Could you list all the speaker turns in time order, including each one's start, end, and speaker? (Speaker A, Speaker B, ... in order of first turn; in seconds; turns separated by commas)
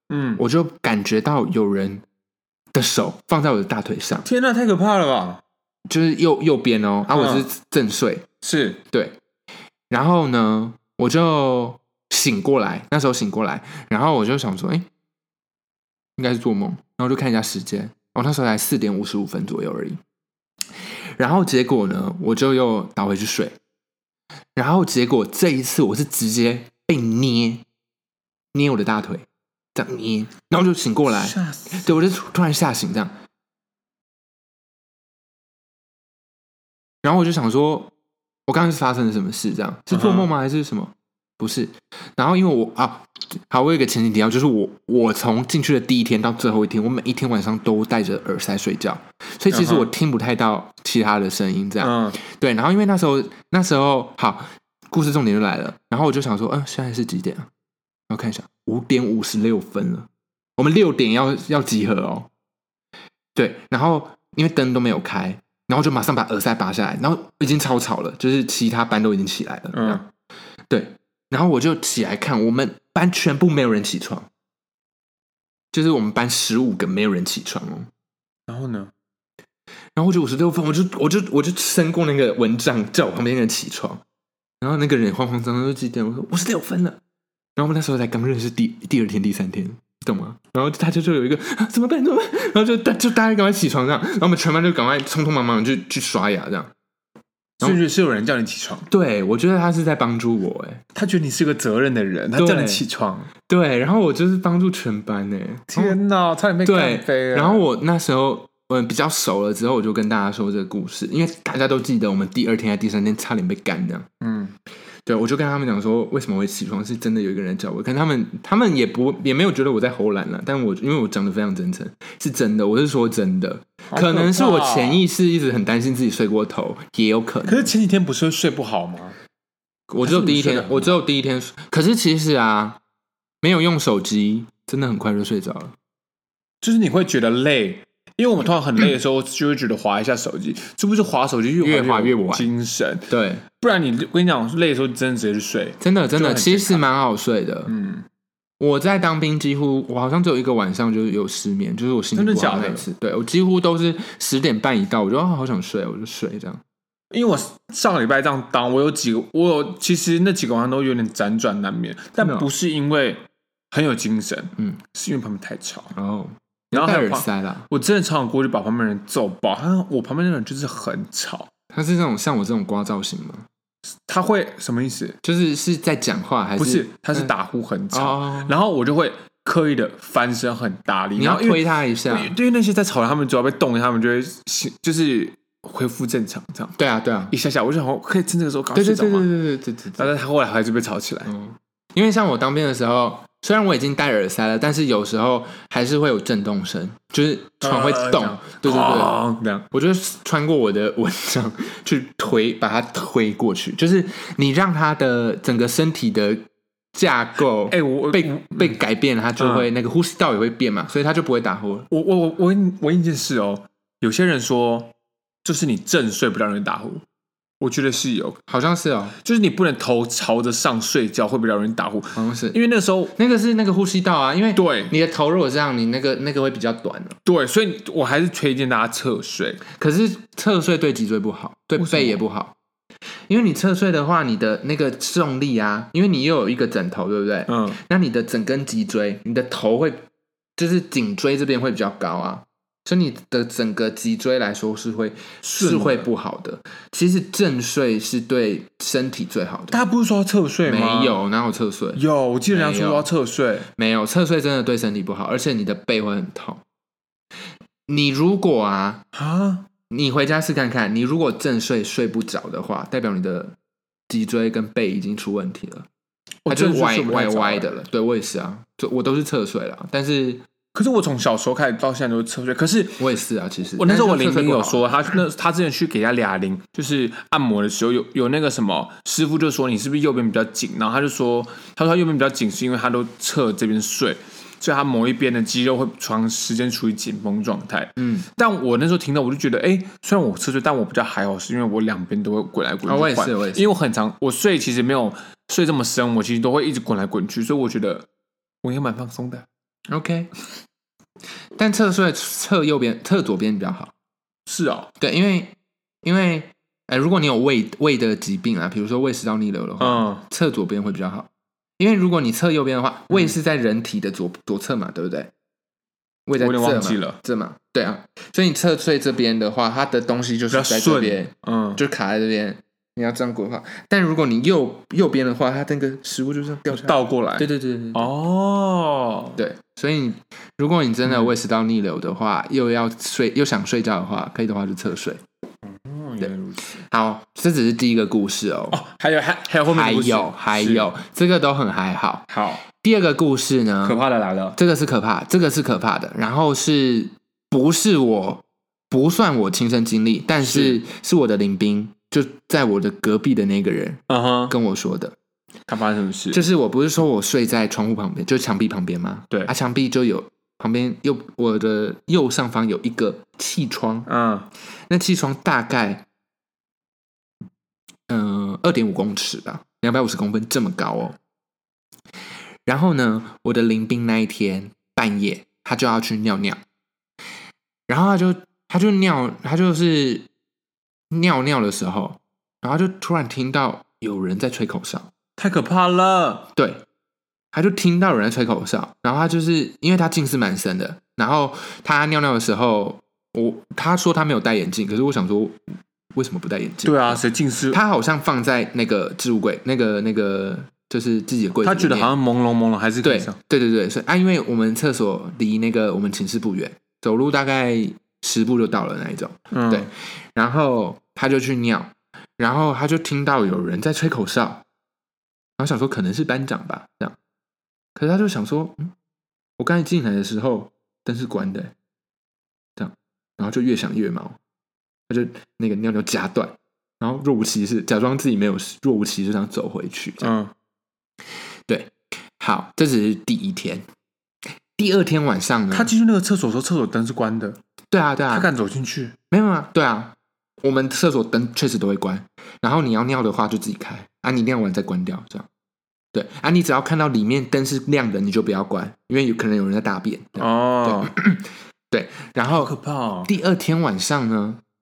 Speaker A: 0.1-0.4, Speaker B: 0.4-2.0, Speaker B: 2.7-4.2, Speaker A: 4.2-5.4, Speaker B: 5.9-8.2, Speaker A: 7.1-7.5, Speaker A: 8.4-8.8, Speaker B: 8.9-9.2, Speaker B: 9.9-14.9, Speaker B: 16.2-20.0, Speaker B: 21.2-23.6, Speaker B: 24.5-27.6, Speaker B: 28.5-33.1, Speaker A: 31.1-31.9, Speaker B: 37.0-37.9, Speaker B: 38.5-57.5, Speaker A: 39.9-40.3, Speaker A: 49.5-49.9, Speaker A: 51.8-52.2, Speaker B: 58.1-62.3, Speaker B: 63.3-70.0, Speaker A: 69.7-70.0, Speaker B: 70.7-74.3, Speaker B: 75.7-77.9, Speaker A: 78.5-78.9, Speaker B: 80.0-84.0, Speaker B: 84.6-87.0, Speaker B: 87.5-96.7, Speaker A: 97.6-98.9, Speaker B: 98.9-100.8, Speaker A: 100.9-103.3, Speaker B: 102.4-102.8, Speaker B: 103.5-106.0, Speaker A: 105.7-107.6, Speaker B: 106.6-114.1, Speaker A: 114.2-114.5, Speaker B: 115.0-127.7, Speaker A: 123.9-125.0, Speaker A: 127.4-129.2, Speaker B: 129.9-132.8, Speaker A: 130.0-131.0, Speaker B: 133.4-135.7, Speaker A: 136.6-146.8, Speaker B: 141.6-142.5, Speaker B: 143.1-143.4, Speaker B: 145.8-147.7, Speaker A: 147.7-148.0, Speaker B: 148.6-156.6, Speaker A: 152.1-152.9, Speaker A: 157.1-165.9, Speaker B: 162.2-162.5, Speaker B: 165.9-167.7, Speaker A: 166.7-171.5, Speaker B: 171.7-173.5, Speaker A: 174.1-175.2, Speaker B: 175.2-177.3, Speaker A: 176.6-186.7, Speaker B: 177.9-178.5, Speaker B: 181.2-182.3, Speaker B: 186.8-187.3, Speaker A: 187.3-189.3, Speaker B: 188.7-190.1, Speaker A: 190.0-191.3, Speaker B: 191.3-199.2, Speaker A: 197.6-199.7, Speaker B: 199.7-206.4, Speaker B: 206.9-211.9, Speaker A: 207.7-208.7, Speaker A: 209.4-209.7, Speaker A: 211.9-214.9, Speaker A: 215.4-217.0, Speaker A: 217.6-218.4, Speaker B: 218.5-219.2, Speaker A: 219.2-223.1, Speaker B: 222.1-222.6, Speaker B: 223.2-227.2, Speaker A: 224.5-224.9, Speaker A: 227.2-229.6, Speaker B: 229.7-232.5, Speaker A: 231.8-232.2, Speaker B: 233.3-240.0, Speaker A: 237.5-237.8, Speaker B: 240.6-249.8, Speaker A: 245.4-246.1, Speaker A: 249.7-251.2, Speaker B: 250.7-253.1, Speaker A: 251.9-253.7, Speaker B: 253.8-256.6, Speaker B: 257.9-259.0, Speaker A: 259.1-259.6, Speaker B: 259.9-263.6, Speaker B: 264.1-265.9, Speaker A: 266.4-267.8, Speaker B: 266.5-270.4, Speaker A: 270.7-273.0, Speaker B: 273.0-274.9, Speaker A: 273.8-298.1, Speaker B: 288.0-288.2, Speaker B: 292.9-293.7, Speaker A: 298.6-299.4, Speaker B: 299.9-300.3, Speaker B: 301.6-303.9, Speaker A: 304.5-304.9, Speaker B: 305.0-311.3, Speaker A: 309.8-310.2, Speaker B: 311.8-315.3, Speaker B: 316.2-328.1, Speaker A: 316.4-317.2, Speaker A: 320.5-321.8, Speaker A: 326.7-329.4, Speaker B: 329.4-335.2, Speaker A: 331.1-331.3, Speaker A: 335.6-336.8, Speaker B: 336.9-338.8, Speaker A: 338.7-340.9, Speaker B: 339.7-344.0, Speaker A: 342.3-342.6, Speaker A: 343.8-344.6, Speaker B: 344.6-355.1, Speaker A: 350.4-350.8, Speaker A: 354.1-354.5, Speaker A: 355.7-356.4, Speaker B: 356.3-364.1, Speaker A: 364.1-364.5, Speaker B: 364.9-366.0, Speaker B: 368.1-371.2, Speaker B: 372.6-376.6, Speaker B: 377.9-380.3, Speaker B: 381.1-385.1, Speaker A: 385.4-386.5, Speaker B: 386.6-386.8, Speaker B: 387.5-395.6, Speaker B: 396.1-402.1, Speaker A: 396.8-397.8, Speaker A: 401.6-403.4, Speaker B: 403.0-414.6, Speaker A: 409.5-409.9, Speaker B: 415.6-417.1, Speaker B: 417.9-418.9, Speaker B: 419.6-421.7, Speaker B: 422.8-424.4, Speaker B: 425.1-430.3, Speaker A: 430.2-430.5, Speaker B: 431.7-433.9, Speaker B: 434.8-435.9, Speaker A: 435.7-437.6, Speaker B: 437.9-438.5, Speaker A: 438.3-439.1, Speaker B: 439.3-445.5, Speaker B: 446.1-452.7, Speaker A: 450.4-451.1, Speaker A: 452.5-453.3, Speaker B: 453.2-454.6